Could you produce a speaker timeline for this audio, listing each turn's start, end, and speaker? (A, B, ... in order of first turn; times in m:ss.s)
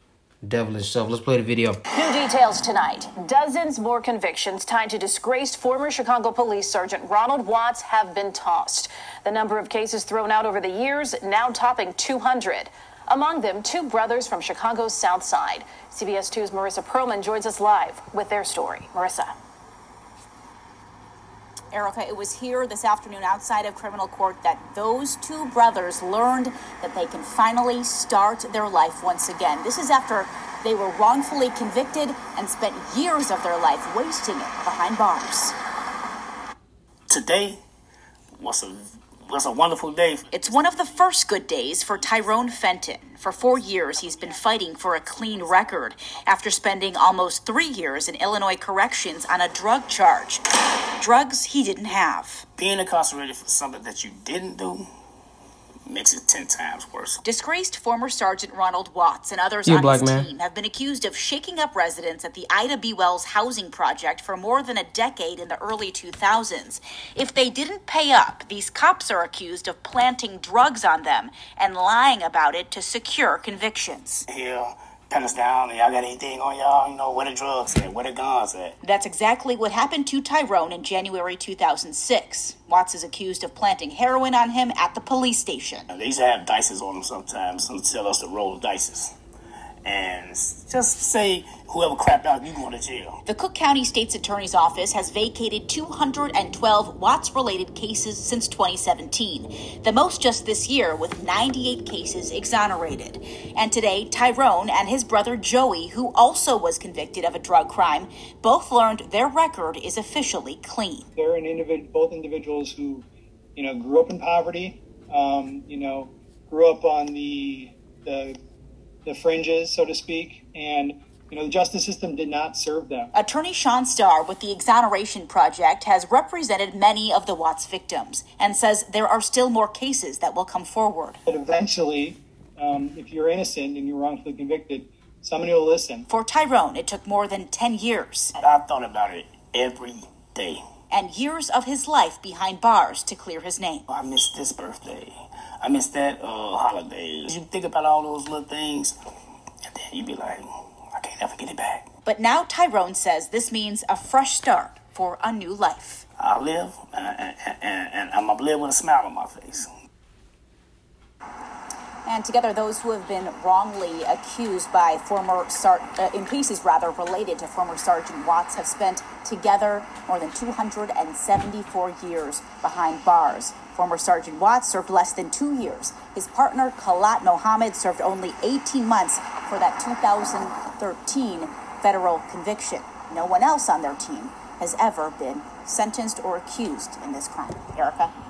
0:00.4-0:01.8 A
0:01.9-0:19.3 B
0:21.7-0:35.5 C
0:37.1-0:37.6 D
0:38.4-0:40.4 D
0:40.3-0:50.4 C
0:51.0-0:52.4 C
0:52.6-0:54.9 D
0:55.9-0:57.2 D
0:57.2-1:14.2 C
0:59.6-1:00.3 A
1:14.3-1:18.8 D
1:18.8-1:25.9 C
1:25.9-1:29.1 D
1:29.8-1:33.2 D
1:33.2-1:51.1 C
1:51.2-1:58.4 E
1:59.0-2:03.1 E
2:03.1-2:11.2 C
2:11.3-2:16.0 E
2:16.1-2:18.3 C
2:18.4-2:20.6 D
2:20.9-2:23.9 C
2:23.9-2:29.0 D
2:29.6-2:31.8 D
2:32.0-2:36.0 C
2:36.2-2:39.7 D
2:42.0-3:08.1 C